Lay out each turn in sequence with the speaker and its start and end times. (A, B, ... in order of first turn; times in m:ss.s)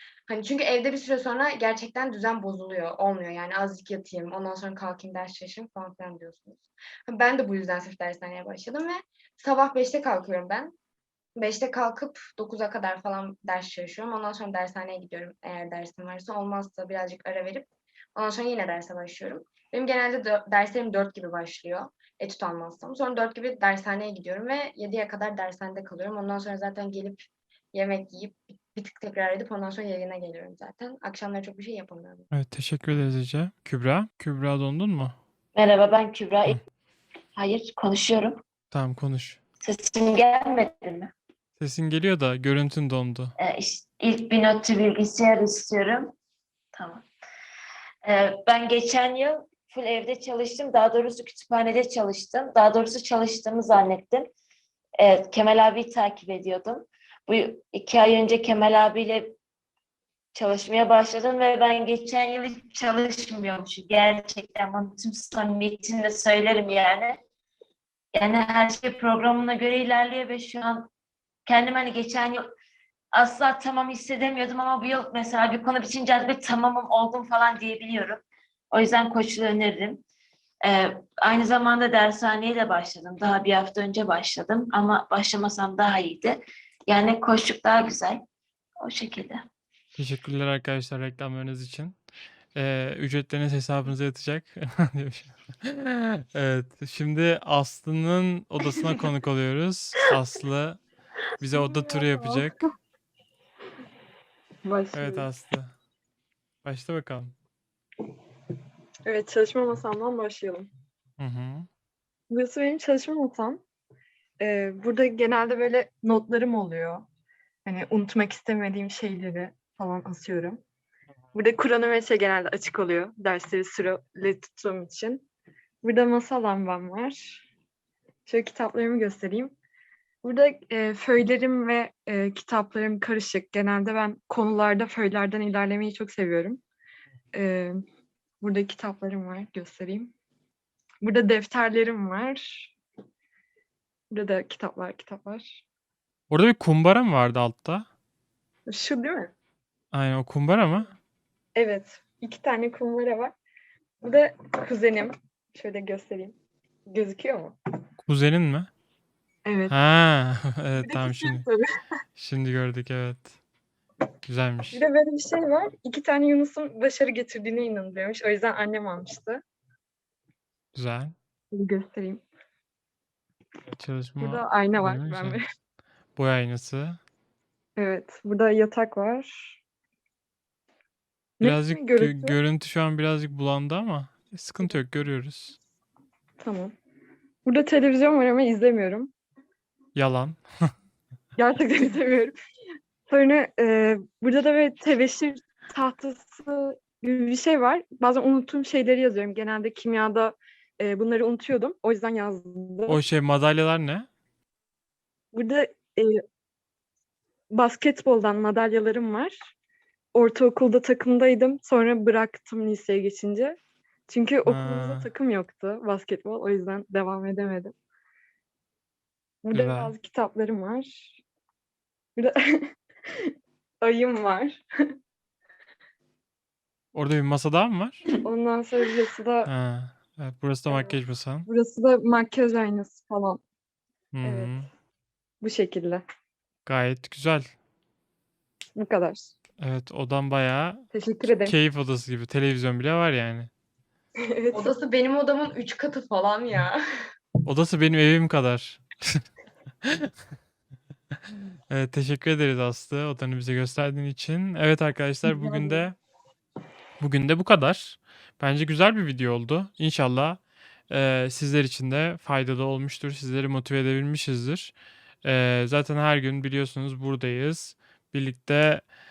0:00.3-0:10.8 A
0:11.4-0:32.3 A
0:32.3-0:35.2 B
0:35.6-0:36.6 C
0:37.4-0:38.4 C
0:38.7-0:39.4 B
0:39.6-0:41.1 C
0:41.6-0:43.3 B
0:43.4-0:46.2 C
0:46.7-0:47.0 C
0:48.0-0:54.3 C
0:55.0-0:59.4 C
1:00.4-1:07.2 C
1:08.2-1:10.9 C
1:11.5-1:12.4 C
1:13.1-1:20.0 C
1:20.6-1:28.2 C
1:28.8-1:29.4 C
1:30.0-1:32.0 B
1:32.6-1:40.8 B
1:41.4-1:42.6 B
1:41.5-1:42.7 D
1:44.6-1:45.3 D
1:44.9-1:45.8 B
1:46.6-1:47.4 B
1:49.0-1:50.7 D
1:51.2-1:51.7 B
1:52.3-1:53.6 D
1:54.4-1:57.1 D
1:57.6-2:00.6 D
2:01.3-2:05.2 D
2:05.8-2:07.4 D
2:08.3-2:09.6 D
2:10.2-2:16.6 D
2:17.3-2:17.8 D
2:18.4-2:20.1 D
2:21.0-2:22.7 D
2:24.1-2:25.6 D
2:26.3-2:27.9 B
2:28.7-2:29.3 D
2:29.9-2:30.9 B
2:31.6-2:33.3 D
2:34.0-2:36.4 D
2:36.9-2:37.6 D
2:38.0-2:38.7 B
2:39.4-2:39.8 D
2:39.7-2:41.5 B
2:40.8-2:41.7 D
2:42.2-2:43.3 B
2:44.3-2:44.8 B
2:44.7-2:49.4 D
2:50.7-2:51.1 B
2:51.5-2:52.2 D
2:53.7-2:55.4 B
2:54.2-2:55.5 D
2:56.2-2:57.0 B
2:57.8-2:59.6 D
3:01.4-3:02.4 D
3:01.4-3:05.6 B
3:06.4-3:06.7 D
3:07.4-3:09.1 D
3:10.0-3:10.4 B
3:11.4-3:12.3 D
3:13.1-3:23.0 D
3:22.9-3:24.1 B
3:25.3-3:26.2 D
3:27.5-3:29.4 D
3:30.1-3:33.6 D
3:34.1-3:37.7 D
3:34.5-3:35.1 B
3:39.4-3:41.2 D
3:39.5-3:39.9 B
3:42.2-3:45.0 D
3:46.9-3:48.1 B
3:48.2-3:49.5 D
3:49.5-3:51.5 B
3:50.7-3:53.4 D
3:54.1-3:54.7 B
3:54.2-3:54.6 D
3:55.4-3:56.0 D
3:56.7-3:57.5 B
3:58.8-3:59.3 D
3:59.6-4:03.5 B
4:00.9-4:01.6 D
4:04.2-4:04.7 D
4:04.5-4:06.8 A
4:07.5-4:09.2 B
4:11.7-4:16.0 B
4:15.3-4:15.9 D
4:17.0-4:24.7 B
4:25.2-4:28.8 B